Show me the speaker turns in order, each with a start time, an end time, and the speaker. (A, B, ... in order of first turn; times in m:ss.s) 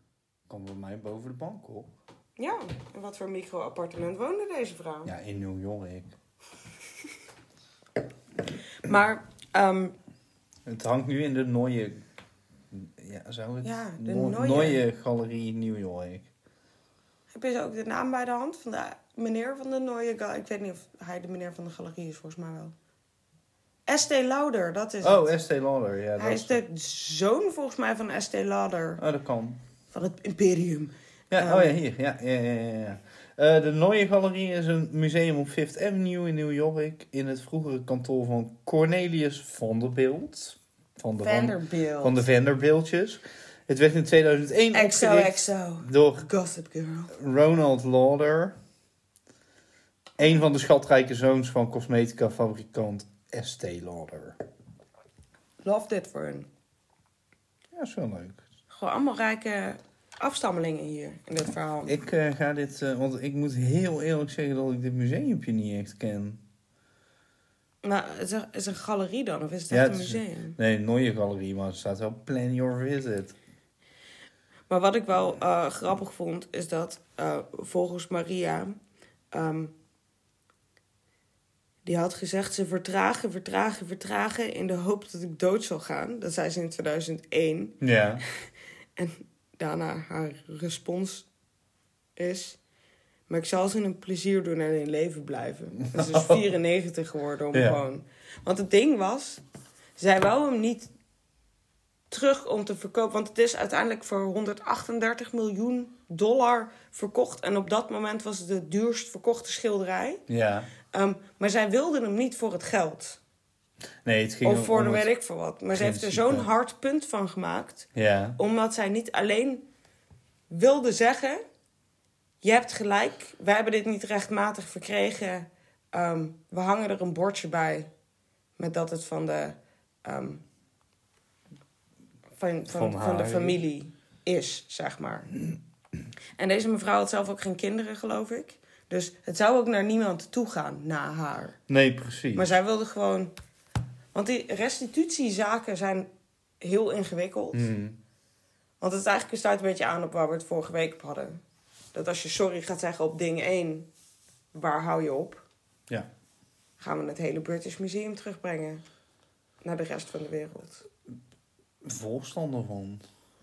0:00.5-0:01.9 A
0:02.4-0:05.1 B
0:05.1-0:06.1 A
0:08.8-0:09.9 B
0:10.7-0:12.0 A
0:12.7-0:16.3 A
0:13.6-0:14.8 B
0:17.3-0:22.7 B
0:23.9-0:25.3 B
0:25.0-0:26.6 A
0:26.2-0:29.0 B
0:29.0-0:29.6 A
0:29.9-0:31.7 B
0:31.3-0:46.2 A
0:41.2-0:42.2 B
0:44.7-0:47.1 B
0:47.1-0:48.6 A
0:50.2-0:54.4 A
0:55.6-0:56.5 B
0:57.7-0:58.4 A
0:58.7-1:02.0 B
1:01.9-1:06.4 A
1:07.8-1:10.6 B
1:09.7-1:13.4 A
1:14.7-1:18.8 B
1:19.3-1:19.7 B
1:21.9-1:28.4 B
1:27.8-1:28.2 A
1:29.0-1:31.3 B
1:32.2-1:32.6 B
1:33.3-1:39.4 B
1:35.9-1:36.4 A
1:37.5-1:37.8 A
1:40.0-1:40.9 B
1:42.1-1:50.2 B
1:50.3-1:50.7 A
1:50.9-1:53.2 B
1:54.0-1:55.1 A
1:54.4-1:59.6 B
1:55.7-1:56.5 A
1:58.0-1:58.4 A
2:00.5-2:01.4 B
2:02.4-2:07.9 B
2:08.6-2:10.4 B
2:12.4-2:15.4 B
2:12.7-2:13.6 A
2:16.4-2:21.6 B
2:21.7-2:22.6 A
2:22.3-2:23.3 B
2:24.1-2:26.1 B
2:26.6-2:27.7 B
2:27.5-2:28.0 A
2:28.8-2:31.4 B
2:31.9-2:33.9 B
2:34.5-2:35.4 B
2:36.8-2:38.8 B
2:39.6-2:40.9 B
2:41.8-2:43.0 A